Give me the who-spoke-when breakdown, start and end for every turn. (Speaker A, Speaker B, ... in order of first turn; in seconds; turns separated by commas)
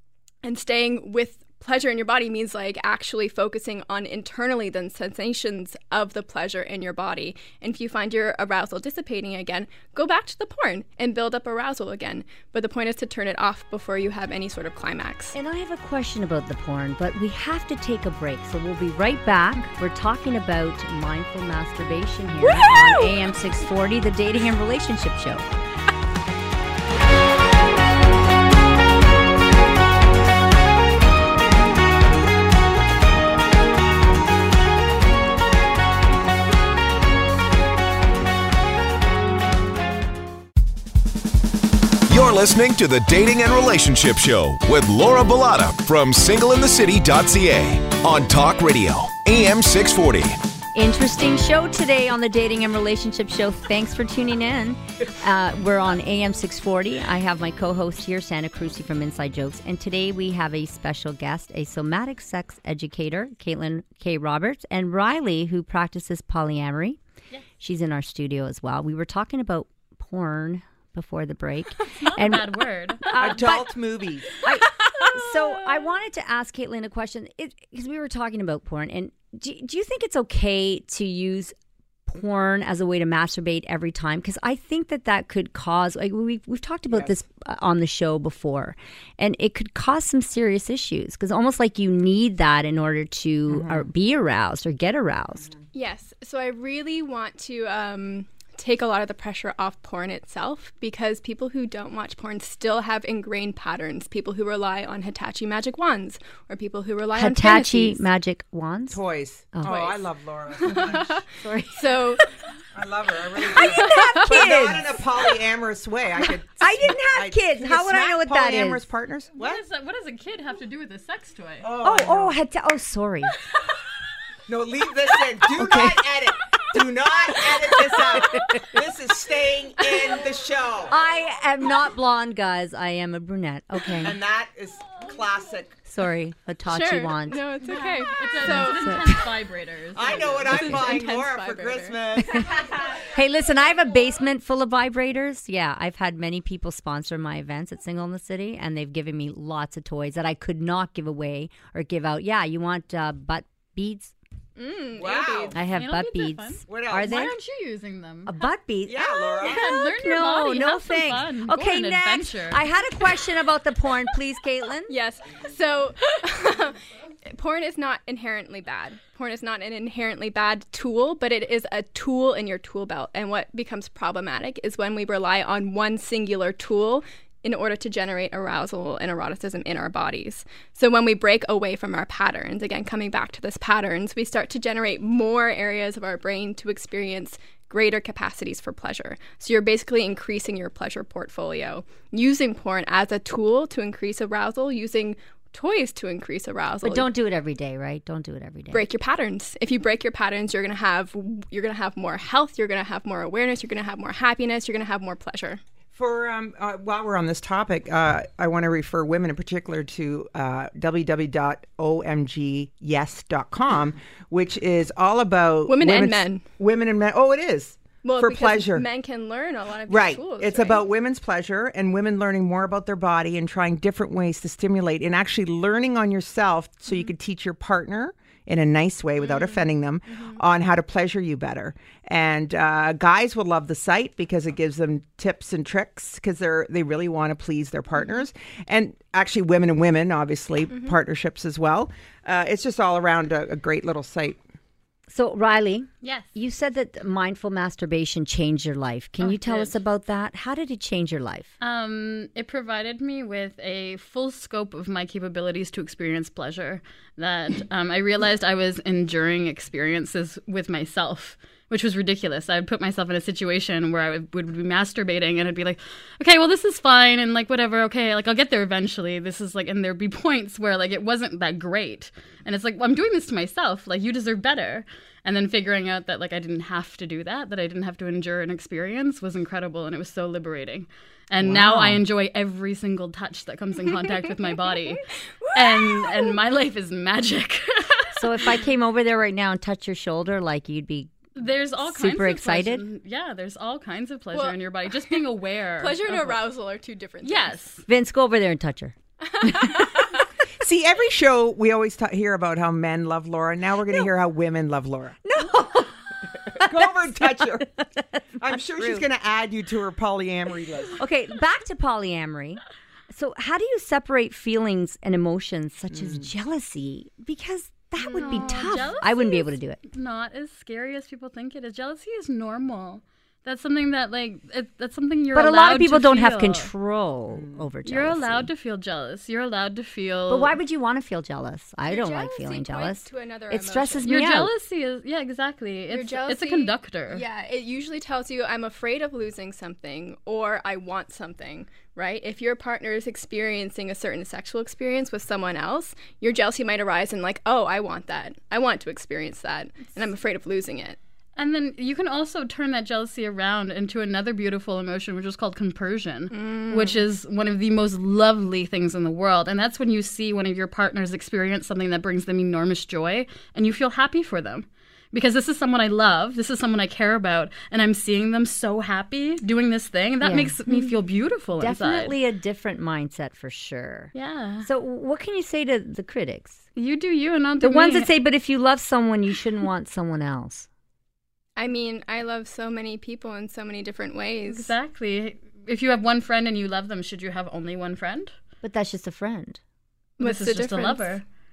Speaker A: 0.4-15.3, Speaker B: 15.3-25.4, Speaker A: 22.6-23.1, Speaker C: 42.1-50.4, Speaker B: 50.7-67.0, Speaker B: 67.6-73.8, Speaker D: 71.9-73.2, Speaker E: 73.1-74.4, Speaker B: 74.3-81.5, Speaker D: 74.4-75.6, Speaker B: 82.1-95.5, Speaker E: 93.5-93.9, Speaker A: 95.7-108.0, Speaker B: 107.1-109.0, Speaker E: 108.9-111.2, Speaker B: 109.5-109.8, Speaker A: 109.7-110.0, Speaker A: 110.6-111.1, Speaker B: 110.7-112.2, Speaker A: 111.7-112.3, Speaker E: 112.7-119.6, Speaker B: 113.5-115.0, Speaker A: 113.5-114.2, Speaker B: 116.6-118.8, Speaker D: 119.3-121.7, Speaker E: 121.6-122.3, Speaker B: 121.8-123.3, Speaker E: 124.5-131.0, Speaker B: 125.5-126.1, Speaker B: 128.1-128.6, Speaker B: 130.9-134.2, Speaker E: 134.0-135.7, Speaker B: 135.8-137.4, Speaker A: 136.7-138.9, Speaker D: 137.6-140.7, Speaker B: 138.4-139.3, Speaker E: 139.9-143.0, Speaker A: 140.5-142.0, Speaker B: 140.5-140.8, Speaker B: 142.2-154.1, Speaker A: 154.6-155.6, Speaker E: 155.0-155.6, Speaker B: 155.5-157.3, Speaker D: 155.7-158.4, Speaker E: 156.7-157.3, Speaker B: 158.2-164.9, Speaker E: 158.9-159.8, Speaker D: 159.4-162.6, Speaker A: 164.9-197.1, Speaker B: 196.8-198.8, Speaker A: 198.7-205.6, Speaker E: 205.9-218.8, Speaker A: 215.7-216.4, Speaker A: 218.0-220.8, Speaker E: 219.9-244.4, Speaker A: 229.2-230.4, Speaker B: 245.1-251.5, Speaker D: 246.0-246.3, Speaker D: 249.2-249.8, Speaker D: 251.6-288.6, Speaker E: 281.4-282.0, Speaker A: 283.9-286.4, Speaker B: 288.1-291.1, Speaker D: 291.4-296.4, Speaker B: 291.8-292.8, Speaker A: 294.3-295.2, Speaker A: 295.8-297.6, Speaker D: 297.2-297.8, Speaker B: 297.9-300.2, Speaker A: 299.4-300.0, Speaker E: 300.6-305.2, Speaker B: 305.2-309.1, Speaker E: 306.5-307.8, Speaker E: 308.4-311.0, Speaker B: 310.9-319.8, Speaker E: 315.9-316.3, Speaker A: 318.0-318.9, Speaker D: 318.1-326.7, Speaker B: 325.3-328.5, Speaker E: 327.3-327.6, Speaker D: 327.8-330.6, Speaker B: 330.3-334.5, Speaker A: 331.9-334.1, Speaker D: 334.1-337.2, Speaker A: 335.9-351.0, Speaker D: 351.4-372.1, Speaker A: 356.3-357.0, Speaker B: 370.2-370.9, Speaker B: 371.6-374.1, Speaker D: 374.1-374.7, Speaker B: 374.6-376.6, Speaker D: 376.8-378.1, Speaker B: 377.6-380.7, Speaker A: 381.6-384.7, Speaker D: 384.5-388.3, Speaker B: 388.6-389.6, Speaker A: 390.2-391.2, Speaker D: 390.2-391.2